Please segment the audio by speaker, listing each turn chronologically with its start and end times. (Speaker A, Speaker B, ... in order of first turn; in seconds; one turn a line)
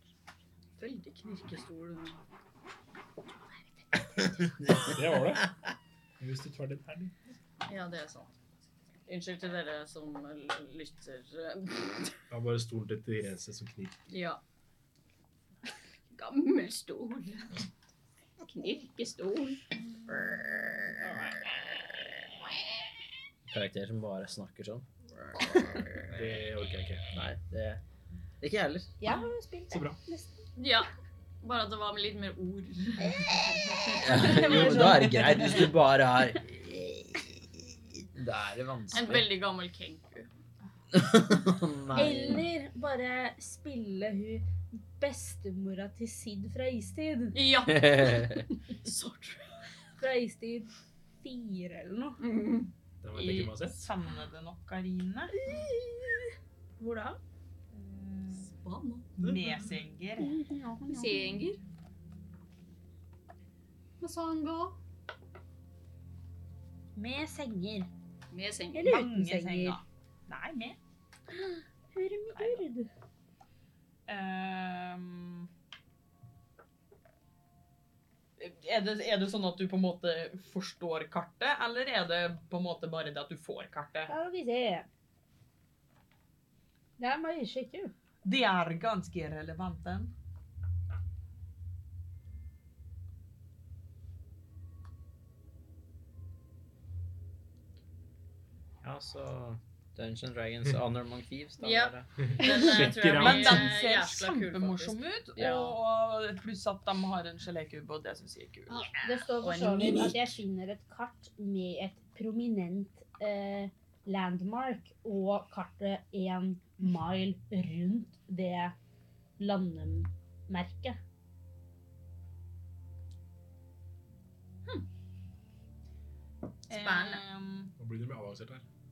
Speaker A: 0.8-2.2
Speaker B: 4.0-4.5
Speaker C: 4.8-5.5
Speaker C: 6.2-7.1
Speaker A: 7.7-8.3
Speaker A: 9.1-12.2
Speaker C: 12.3-14.0
Speaker A: 14.1-14.4
Speaker A: 16.1-17.7
Speaker A: 18.4-19.6
Speaker A: 21.0-21.5
Speaker D: 23.5-25.9
Speaker A: 26.1-26.4
Speaker C: 26.1-27.0
Speaker D: 27.1-27.8
Speaker D: 28.4-28.9
Speaker B: 29.0-30.5
Speaker C: 29.7-30.0
Speaker A: 30.6-30.9
Speaker A: 31.4-34.8
Speaker B: 33.0-35.1
Speaker D: 34.0-39.3
Speaker E: 34.2-35.7
Speaker A: 38.9-40.3
Speaker D: 40.9-42.5
Speaker B: 41.9-47.4
Speaker A: 47.3-49.5
Speaker D: 47.7-48.5
Speaker B: 50.0-50.7
Speaker B: 51.2-52.2
Speaker A: 52.2-52.7
Speaker C: 53.0-53.9
Speaker E: 53.1-55.3
Speaker B: 55.4-57.2
Speaker E: 57.7-58.5
Speaker A: 58.4-59.3
Speaker E: 59.2-60.4
Speaker B: 60.2-61.4
Speaker A: 60.9-61.6
Speaker A: 64.0-64.8
Speaker B: 67.0-67.9
Speaker A: 68.3-68.9
Speaker B: 68.7-69.8
Speaker E: 68.8-70.8
Speaker B: 71.3-72.9
Speaker E: 72.3-72.6
Speaker E: 74.1-75.5
Speaker E: 78.4-84.1
Speaker B: 84.1-84.9
Speaker B: 87.0-87.9
Speaker E: 88.2-90.1
Speaker D: 98.8-102.1
Speaker A: 101.6-105.7
Speaker C: 102.3-103.7
Speaker E: 103.2-108.8
Speaker D: 105.4-105.6
Speaker A: 108.7-110.2
Speaker B: 109.0-118.8
Speaker B: 119.4-121.0
Speaker E: 126.7-127.7
Speaker A: 126.8-127.2
Speaker C: 127.8-128.6